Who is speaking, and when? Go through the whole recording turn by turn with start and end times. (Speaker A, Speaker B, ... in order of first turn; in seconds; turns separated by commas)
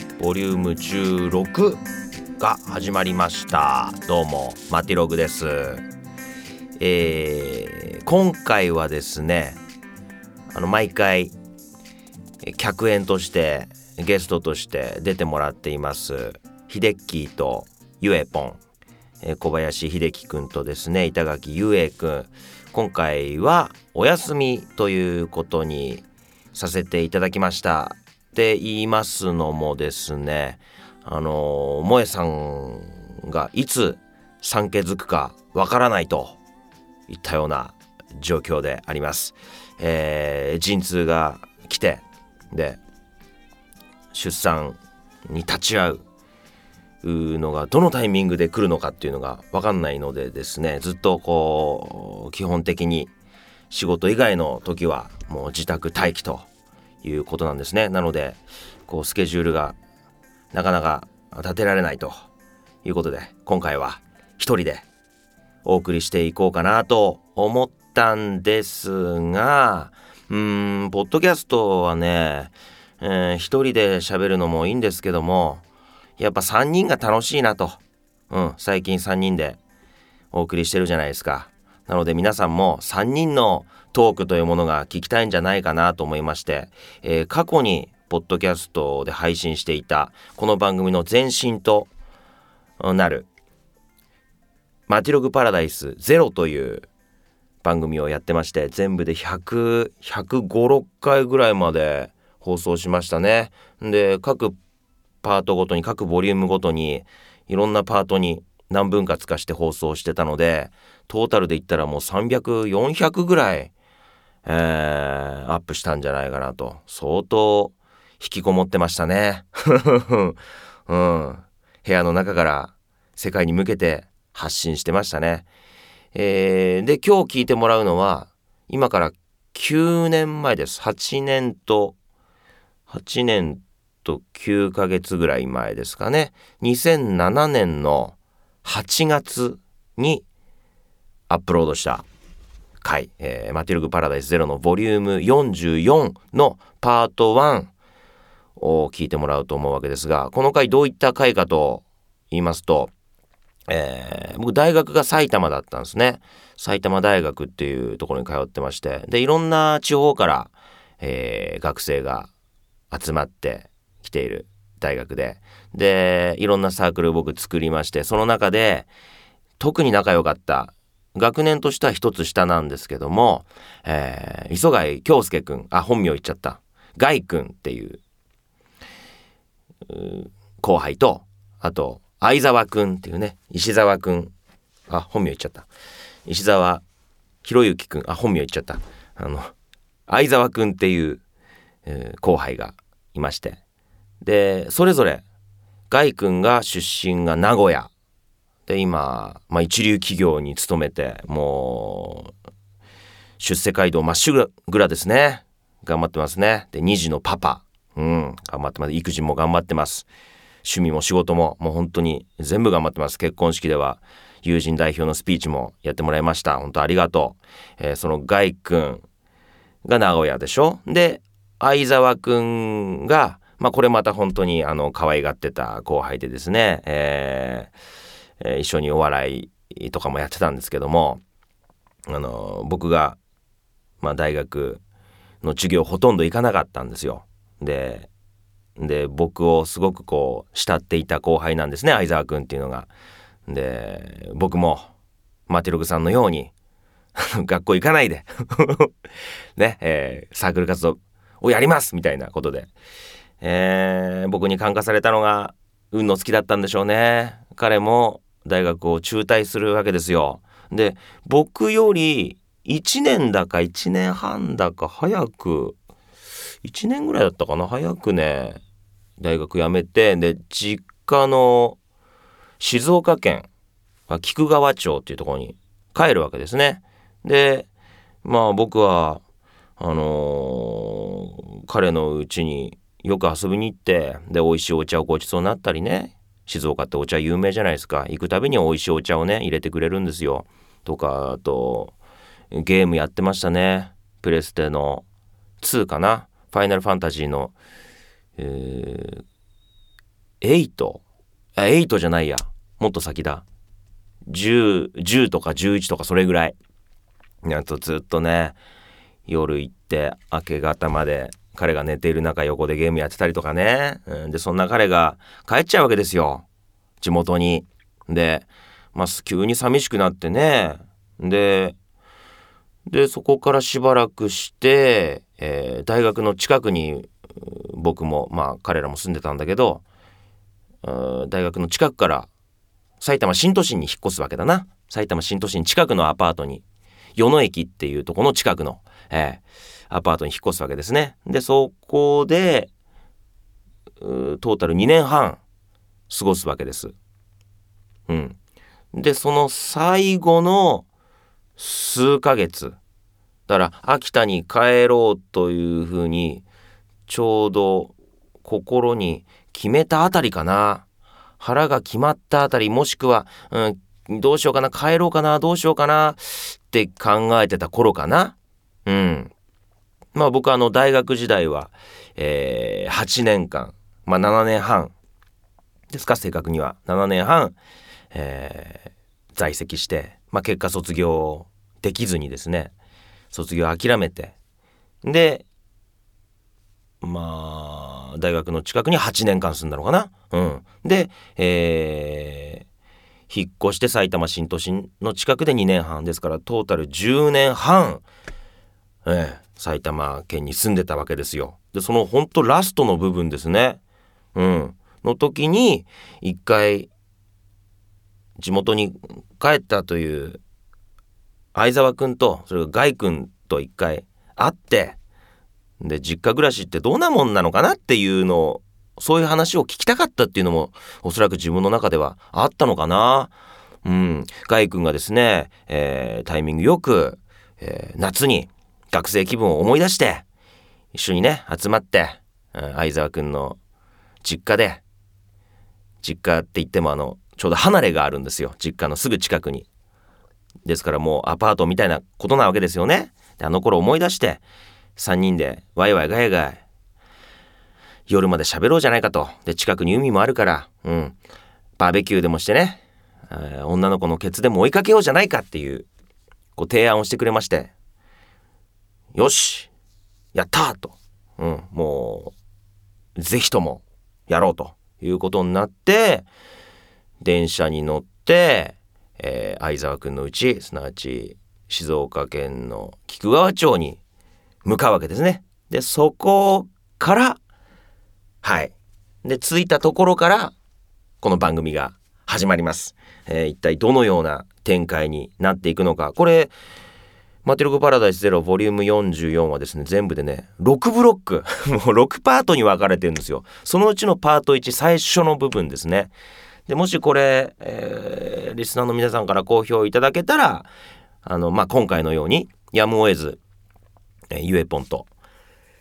Speaker A: 0.2-1.8, Speaker A: 2.4-5.8, Speaker A: 6.8-9.6, Speaker A: 10.5-11.3, Speaker A: 12.4-18.6, Speaker A: 19.2-36.4, Speaker A: 37.1-42.8, Speaker A: 44.1-46.0, Speaker A: 47.0-53.1, Speaker A: 53.7-56.5, Speaker A: 57.0-59.8, Speaker A: 60.5-62.2, Speaker A: 62.8-64.8, Speaker A: 65.6-75.6, Speaker A: 76.2-79.6, Speaker A: 80.3-91.9, Speaker A: 92.8-93.3, Speaker A: 94.9-96.8, Speaker A: 97.6-104.6, Speaker A: 105.2-113.7, Speaker A: 114.4-125.5, Speaker A: 126.1-131.9, Speaker A: 132.9-140.2, Speaker A: 141.3-142.0, Speaker A: 142.8-147.7, Speaker A: 148.6-152.9, Speaker A: 153.7-162.3, Speaker A: 162.9-168.9, Speaker A: 169.6-178.0, Speaker A: 179.9-184.3, Speaker A: 184.9-185.7, Speaker A: 186.2-186.8, Speaker A: 187.4-189.5, Speaker A: 190.1-191.2, Speaker A: 191.8-193.6, Speaker A: 194.2-195.2, Speaker A: 195.9-197.9, Speaker A: 198.7-202.3, Speaker A: 203.4-210.1, Speaker A: 210.6-219.0, Speaker A: 219.8-227.7, Speaker A: 228.4-231.2, Speaker A: 232.1-233.2, Speaker A: 234.0-234.8, Speaker A: 235.4-238.1, Speaker A: 238.8-242.9, Speaker A: 243.5-244.9, Speaker A: 245.5-246.5, Speaker A: 247.2-248.9, Speaker A: 249.6-252.7, Speaker A: 253.4-265.8, Speaker A: 266.6-268.6, Speaker A: 269.2-271.8, Speaker A: 272.6-273.5, Speaker A: 274.1-277.7, Speaker A: 278.2-279.2, Speaker A: 279.8-291.9, Speaker A: 292.5-295.0, Speaker A: 295.6-297.5, Speaker A: 298.4-299.2, Speaker A: 300.4-301.0, Speaker A: 301.6-303.4, Speaker A: 304.2-306.6, Speaker A: 307.4-308.6, Speaker A: 309.2-316.4, Speaker A: 317.0-321.8, Speaker A: 322.9-329.8, Speaker A: 330.8-332.3, Speaker A: 333.0-336.6, Speaker A: 337.1-342.7, Speaker A: 344.0-345.4, Speaker A: 346.1-346.9, Speaker A: 348.1-348.4, Speaker A: 348.9-350.9, Speaker A: 351.6-352.8, Speaker A: 353.5-356.4, Speaker A: 357.1-360.8, Speaker A: 361.4-368.3, Speaker A: 368.9-369.3, Speaker A: 370.1-374.9, Speaker A: 375.9-377.6, Speaker A: 378.1-382.7, Speaker A: 383.3-384.3, Speaker A: 385.0-385.4, Speaker A: 387.0-392.6, Speaker A: 393.3-398.0, Speaker A: 399.0-403.8, Speaker A: 404.3-406.9, Speaker A: 408.4-410.4, Speaker A: 411.5-415.0, Speaker A: 415.8-423.3, Speaker A: 423.8-430.2, Speaker A: 430.9-433.6, Speaker A: 434.2-434.8, Speaker A: 436.0-439.7, Speaker A: 440.6-444.4, Speaker A: 444.9-446.6, Speaker A: 448.1-451.2, Speaker A: 451.8-455.9, Speaker A: 456.6-457.7, Speaker A: 459.1-459.7, Speaker A: 460.3-462.3, Speaker A: 463.1-466.3, Speaker A: 467.2-474.0, Speaker A: 474.6-477.4, Speaker A: 478.4-480.5, Speaker A: 481.2-486.5, Speaker A: 487.4-496.1, Speaker A: 496.7-500.7, Speaker A: 501.2-503.4, Speaker A: 504.3-505.1